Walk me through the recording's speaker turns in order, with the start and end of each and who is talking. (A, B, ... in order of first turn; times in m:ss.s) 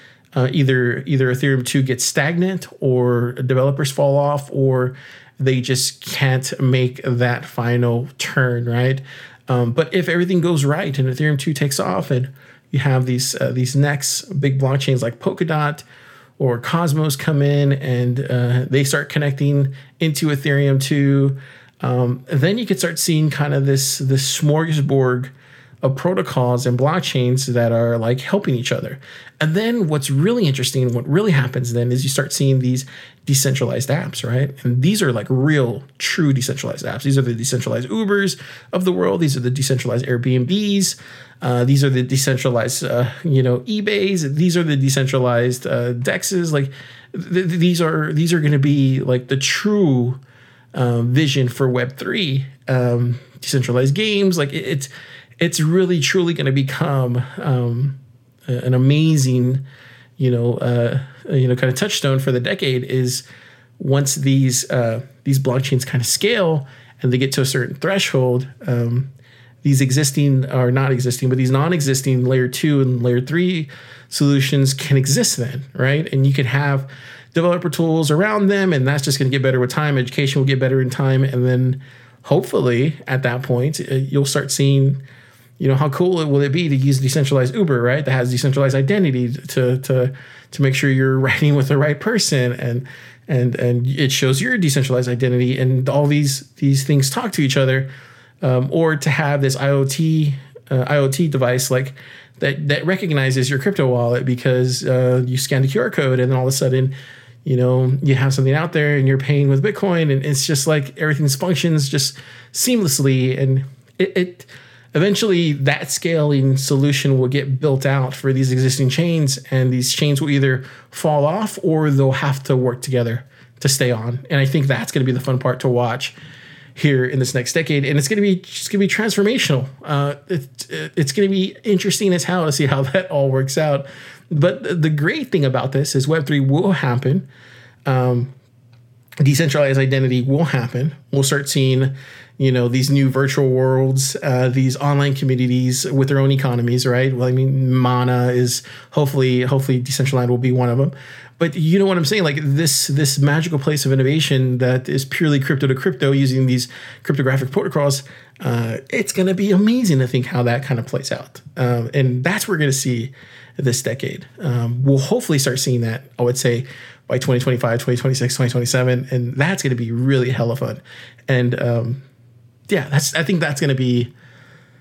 0:00.3-0:15.8 A
0:16.4-0:50.2 A
0:50.7-0:59.6 A
1:00.2-1:03.2 A
1:03.8-1:09.1 A
1:09.6-1:25.0 A
1:25.6-1:37.9 A
1:38.4-1:46.9 A
1:47.4-2:06.1 A
2:06.8-2:17.3 A
2:17.8-2:18.3 A
2:19.2-2:52.0 A
2:52.7-2:54.1 A